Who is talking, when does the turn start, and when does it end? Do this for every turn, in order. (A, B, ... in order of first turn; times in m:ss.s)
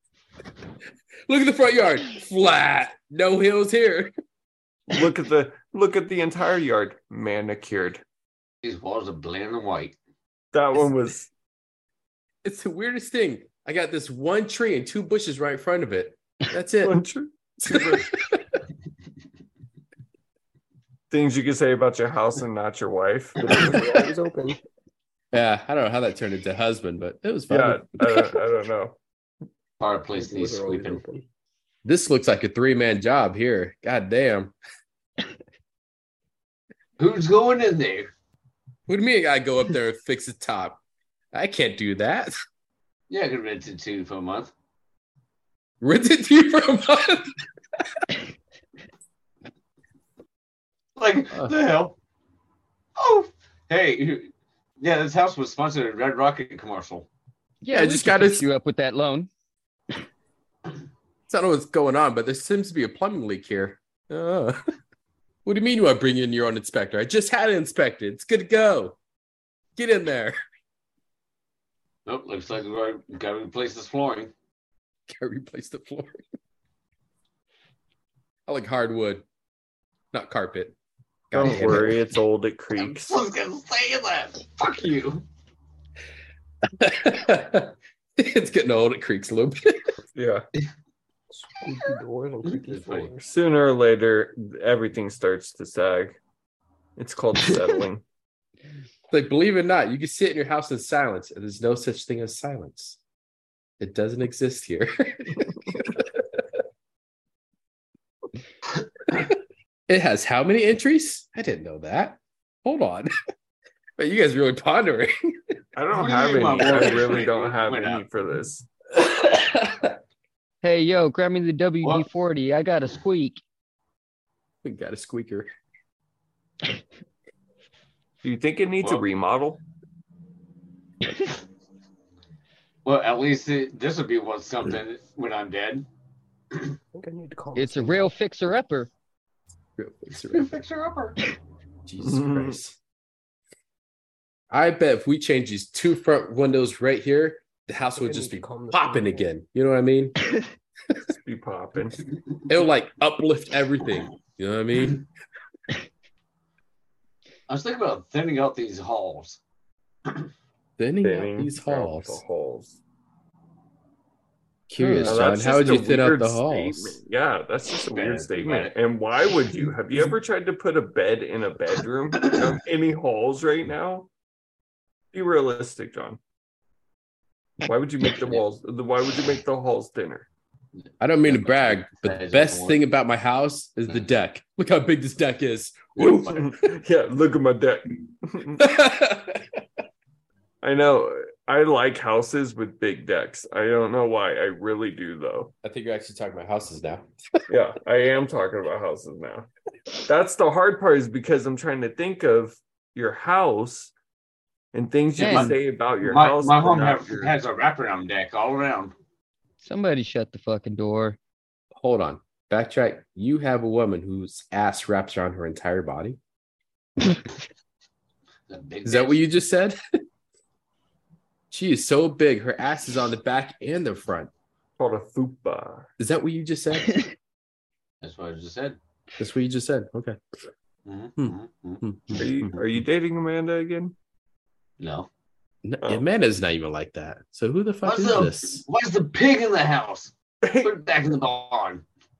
0:01.3-0:04.1 A
0:04.9-0:08.0 B
0:08.6-0:10.0 C
0:10.5-0:11.3 B
0:12.4-0:17.0 A
0:16.8-0:18.1 B
0:17.7-0:18.6 A
0:21.1-0:23.8 B
0:23.4-0:24.6 D
0:25.3-0:28.2 A
0:27.5-0:29.0 B
0:29.8-0:31.0 C
0:30.2-0:31.2 D
0:31.8-0:34.6 A
0:37.0-0:38.1 C
0:38.9-0:40.8 A
0:41.3-0:42.3 A
0:43.1-0:44.5 C
0:45.8-0:47.3 A
0:51.0-0:52.0 C
0:53.0-0:57.1 C
0:57.6-0:59.3 E
0:57.7-0:58.5 A
1:01.3-1:04.6 A
1:05.4-1:09.0 A
1:09.8-1:10.4 A
1:12.0-1:14.3 C
1:15.1-1:16.2 A
1:18.5-1:19.2 A
1:20.1-1:20.7 A
1:21.3-1:22.0 A
1:21.3-1:23.2 B
1:21.4-1:21.8 C
1:22.7-1:25.2 C
1:26.8-1:29.9 A
1:30.1-1:30.4 B
1:31.3-1:33.2 D
1:32.5-1:33.1 C
1:33.2-1:36.2 B
1:37.0-1:38.0 B
1:39.1-1:43.0 A
1:43.8-1:46.4 A
1:49.9-1:53.1 A
1:54.0-1:55.1 A
1:55.8-1:58.6 B
1:55.9-1:58.0 C
1:59.0-1:59.9 A
2:00.6-2:03.4 E
2:04.6-2:05.5 A
2:08.2-2:09.6 B
2:12.8-2:15.9 C
2:16.9-2:18.1 D
2:17.5-2:18.9 E
2:19.8-2:20.6 A
2:20.3-2:21.2 C
2:21.8-2:22.8 A
2:22.0-2:22.6 B
2:24.5-2:30.2 A
2:27.9-2:29.3 D
2:31.1-2:32.0 B
2:32.5-2:35.0 A
2:37.5-2:39.4 C
2:40.8-2:42.2 A
2:41.0-2:42.8 B
2:44.7-2:47.0 A
2:44.8-2:45.2 E
2:45.0-2:54.1 B
2:47.9-2:48.7 C
2:55.1-2:56.2 B
2:57.6-3:00.3 B
3:01.0-3:06.3 A
3:01.2-3:02.8 C
3:06.0-3:06.5 C
3:06.1-3:08.6 B
3:08.6-3:09.6 A
3:10.6-3:15.5 B
3:15.6-3:17.1 A
3:17.5-3:19.5 B
3:20.0-3:23.9 B
3:24.7-3:27.4 B
3:25.1-3:28.9 C
3:25.2-3:25.6 E
3:29.6-3:31.2 E
3:31.8-3:36.2 A
3:38.5-3:39.2 C
3:38.8-3:39.8 A
3:41.5-3:44.3 A
3:44.8-3:45.9 B
3:46.0-3:47.0 A
3:48.0-3:48.8 C
3:49.2-3:50.2 A
3:50.8-3:52.2 C
3:51.2-3:52.5 A
3:52.2-3:53.9 B
3:54.8-3:55.1 C
3:55.6-3:58.6 A
3:57.8-4:01.8 C
4:00.4-4:00.7 B